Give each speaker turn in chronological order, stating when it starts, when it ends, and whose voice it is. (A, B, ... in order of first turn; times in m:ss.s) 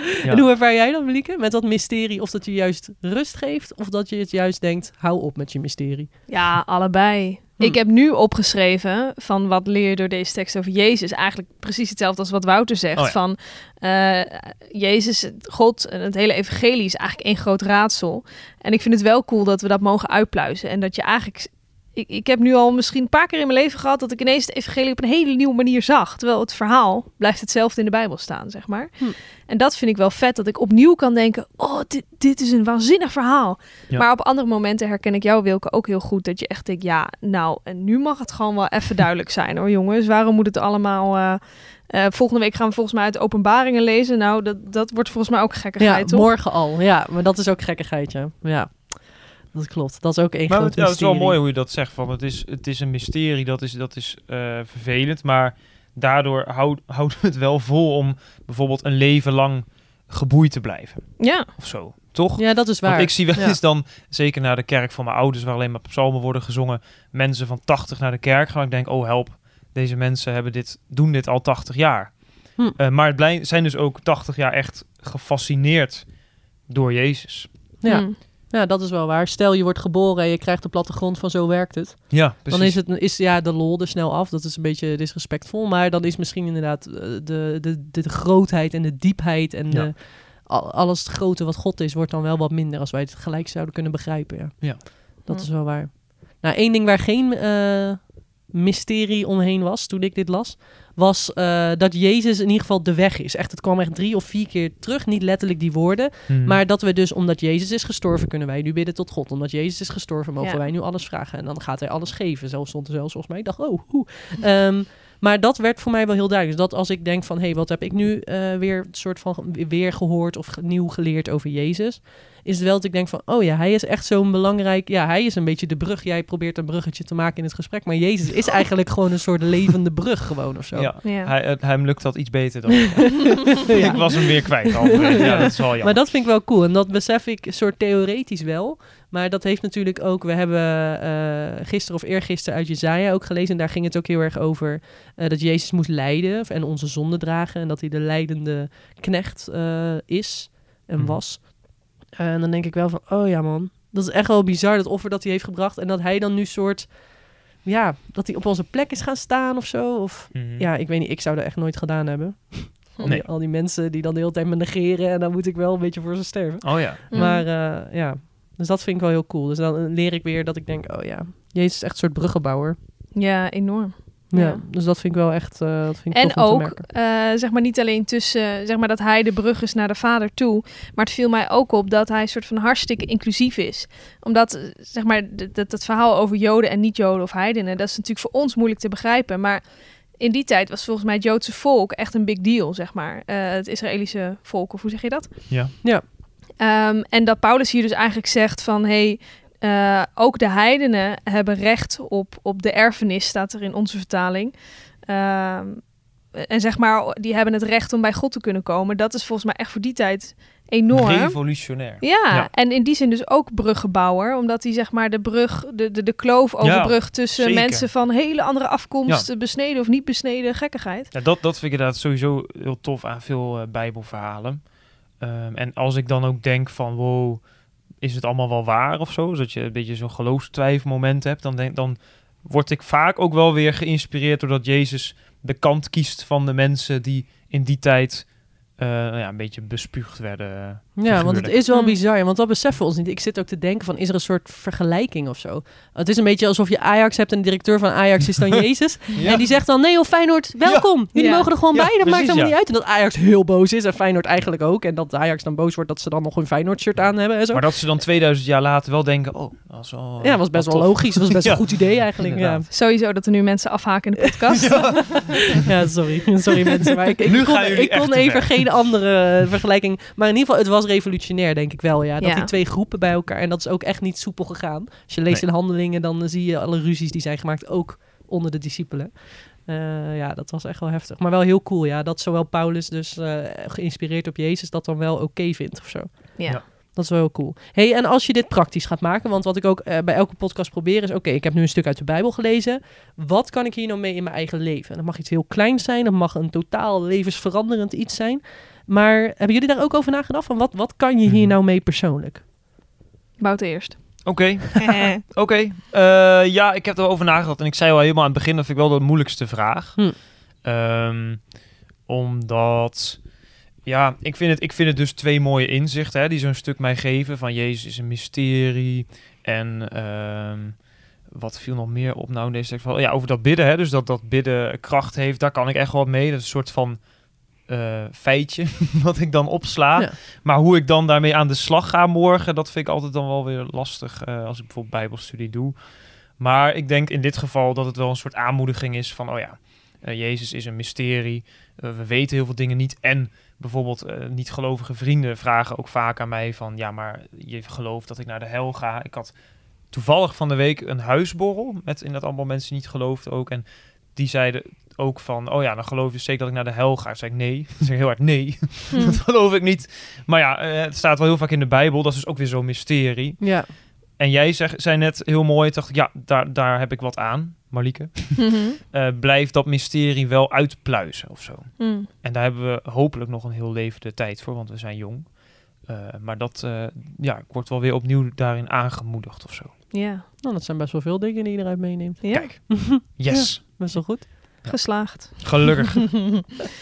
0:00.2-0:06.4 A
0:06.3-0:46.3 B
0:45.8-0:51.4 A
0:50.5-1:17.5 C
1:01.2-1:01.5 B
1:02.4-1:03.6 A
1:17.8-2:10.9 A
1:17.9-1:18.2 B
1:22.1-1:22.8 C
1:46.3-1:46.6 C
1:50.4-1:50.6 B
2:10.7-2:16.1 C
2:11.0-2:11.3 B
2:13.8-2:14.0 B
2:13.8-2:52.8 A
2:15.2-2:15.5 B
2:31.0-2:31.2 C
2:40.3-2:40.7 C
2:46.6-2:47.0 C
2:47.1-2:47.5 B
2:53.2-2:54.6 B
2:54.3-2:56.8 A
2:56.1-3:15.8 B
3:16.6-3:41.1 B
3:30.9-3:32.5 C
3:36.6-3:37.9 C
3:41.1-4:01.6 C
4:01.0-4:17.7 A
4:01.7-4:02.0 B
4:09.2-4:09.6 C
4:10.6-4:10.9 C
4:11.1-4:11.5 B
4:11.7-4:12.6 C
4:17.5-4:22.7 C
4:20.2-4:22.7 A
4:22.7-4:25.3 B
4:24.5-4:25.6 C
4:25.6-5:02.4 A
4:27.2-4:29.0 C
4:32.2-4:32.5 B
4:46.4-4:46.6 B
5:01.2-5:01.6 C
5:03.4-5:05.2 B
5:04.2-5:11.6 C
5:12.1-5:13.3 C
5:13.8-5:49.4 C
5:49.9-6:19.7 C
5:58.9-5:59.2 B
6:03.4-6:03.7 A
6:08.4-6:08.8 B
6:11.8-6:12.1 B
6:19.9-6:20.3 B
6:20.4-6:24.6 A
6:22.2-6:22.7 B
6:22.3-6:26.4 C
6:24.6-6:26.0 B